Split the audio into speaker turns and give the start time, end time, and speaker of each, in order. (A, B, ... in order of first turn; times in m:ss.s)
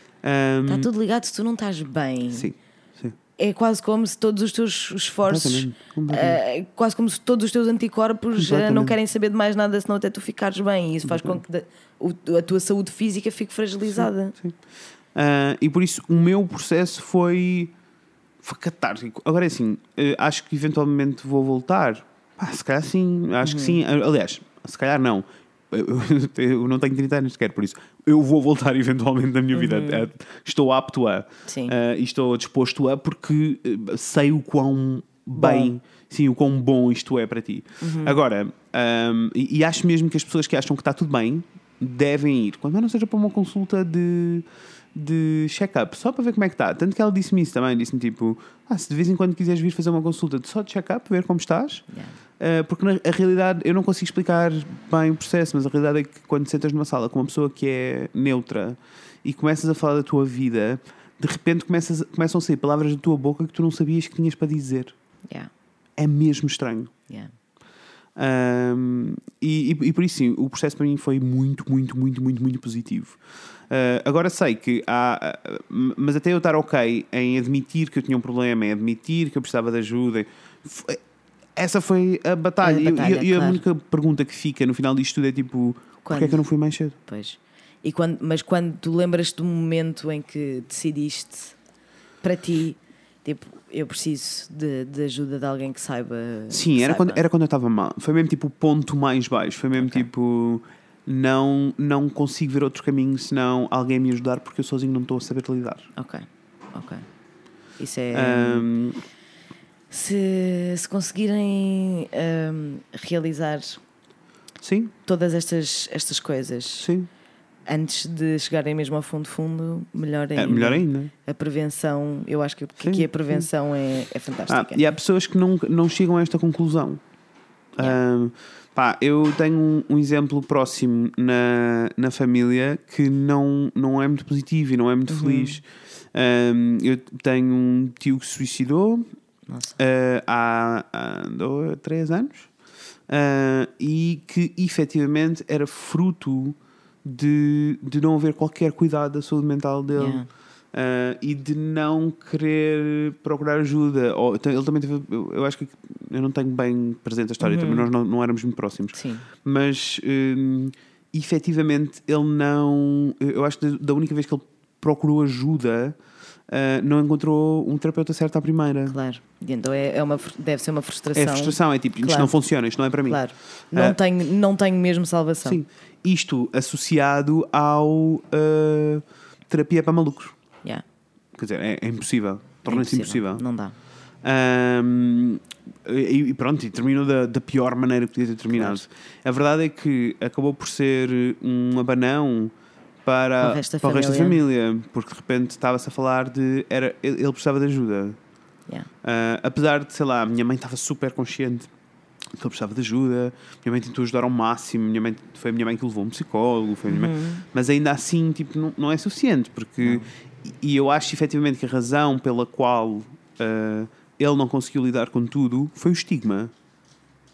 0:00.2-0:00.9 A
0:00.6-0:02.5 B
0:02.3-0:03.2 A
0:03.4-0:14.4 B
0:05.2-0:06.4 A
0:08.4-0:09.0 A
0:11.0-0:11.4 A
0:13.9-0:14.6 A
0:15.1-0:17.7 A
0:18.4-0:51.8 A
0:23.4-0:23.8 B
0:29.5-0:30.1 B
0:31.5-0:31.7 B
0:35.4-0:35.7 B
0:37.8-0:38.2 B
0:51.9-0:52.2 B
0:52.4-1:04.9 A
1:06.0-1:06.9 A
1:08.2-1:13.2 A
1:13.7-1:21.0 A
1:21.6-1:27.0 A
1:22.6-1:23.6 B
1:26.0-1:26.4 B
1:27.1-1:31.6 B
1:32.2-1:37.2 B
1:36.5-1:45.9 A
1:39.8-1:40.1 B
1:46.0-1:47.0 B
1:47.8-1:48.7 B
1:48.1-1:49.0 A
1:49.9-1:53.8 B
1:54.6-1:54.9 A
1:55.0-1:56.9 B
1:56.8-1:57.1 A
1:57.7-2:04.8 B
2:00.4-2:01.1 A
2:02.8-2:03.4 A
2:04.5-2:07.0 A
2:07.8-2:19.0 A
2:15.1-2:15.6 B
2:19.5-2:19.8 B
2:19.8-2:22.5 A
2:23.1-2:46.0 A
2:30.0-2:30.3 B
2:37.4-2:37.9 B
2:38.9-2:39.3 B
2:46.5-2:49.0 A
2:48.9-2:52.3 B
2:51.1-2:53.2 A
2:53.1-2:55.6 B
2:55.4-3:00.4 A
3:01.3-3:03.4 A
3:02.6-3:03.7 B
3:04.2-3:12.5 A
3:08.5-3:08.8 B
3:13.0-3:18.2 A
3:13.4-3:14.4 B
3:19.0-3:21.7 A
3:22.4-3:36.5 A
3:26.9-3:27.4 B
3:29.8-3:30.1 B